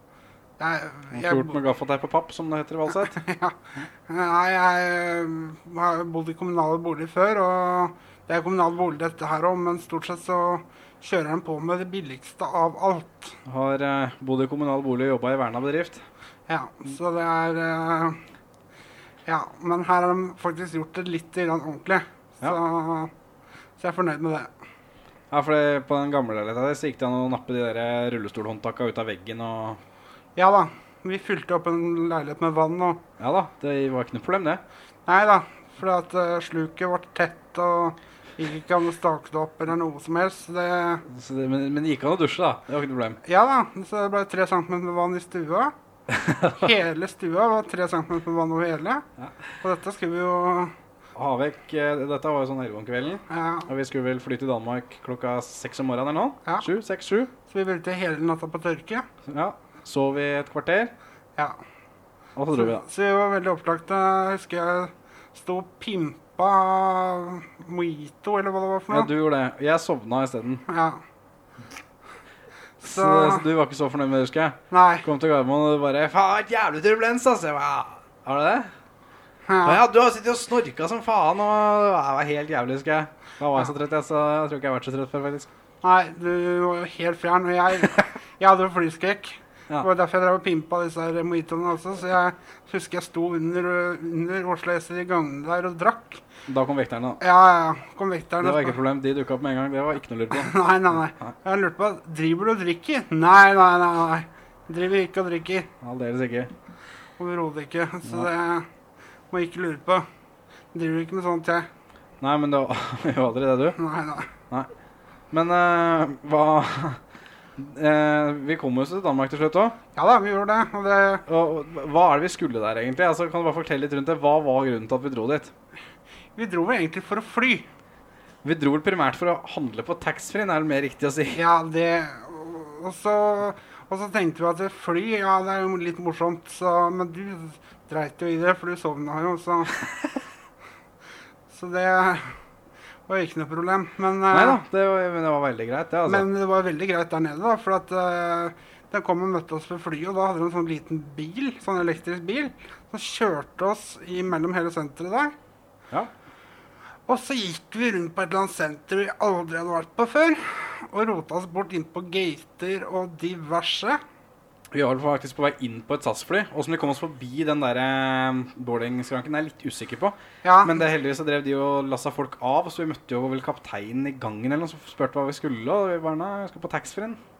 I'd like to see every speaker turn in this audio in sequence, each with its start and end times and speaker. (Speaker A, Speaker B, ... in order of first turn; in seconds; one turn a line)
Speaker A: 0.6-1.6
Speaker B: 1.1-3.2
Speaker A: 3.1-3.5
Speaker A: 4.1-13.3
Speaker B: 13.4-16.0
Speaker A: 16.5-18.2
Speaker A: 19.2-23.1
Speaker A: 23.8-24.5
Speaker B: 25.3-29.8
Speaker A: 30.4-33.0
Speaker B: 33.2-34.6
Speaker A: 35.0-41.0
Speaker B: 41.1-43.2
Speaker A: 43.2-45.7
Speaker B: 46.1-46.6
Speaker A: 46.5-49.0
Speaker A: 49.6-50.7
Speaker B: 51.1-57.3
Speaker A: 53.3-53.7
Speaker A: 57.5-59.1
Speaker B: 59.2-60.9
Speaker B: 62.4-62.8
Speaker A: 62.5-69.1
Speaker B: 68.9-70.6
Speaker A: 70.7-71.0
Speaker A: 72.8-73.4
Speaker B: 72.8-78.7
Speaker A: 74.7-75.0
Speaker A: 79.5-79.8
Speaker B: 79.6-85.5
Speaker A: 85.8-96.2
Speaker B: 96.5-97.2
Speaker A: 97.2-98.8
Speaker B: 98.4-100.5
Speaker A: 100.3-105.7
Speaker B: 105.8-106.5
Speaker A: 107.2-108.7
Speaker A: 109.3-110.1
Speaker A: 110.7-111.7
Speaker B: 112.2-113.8
Speaker A: 113.8-114.3
Speaker B: 115.3-117.0
Speaker B: 117.6-119.8
Speaker A: 119.9-121.2
Speaker B: 121.3-125.5
Speaker A: 126.3-127.7
Speaker B: 128.4-131.4
Speaker A: 131.3-139.8
Speaker A: 141.5-142.3
Speaker A: 143.1-144.6
Speaker B: 144.3-146.3
Speaker A: 146.1-155.3
Speaker A: 157.1-164.0
Speaker B: 164.7-177.2
Speaker A: 170.4-170.8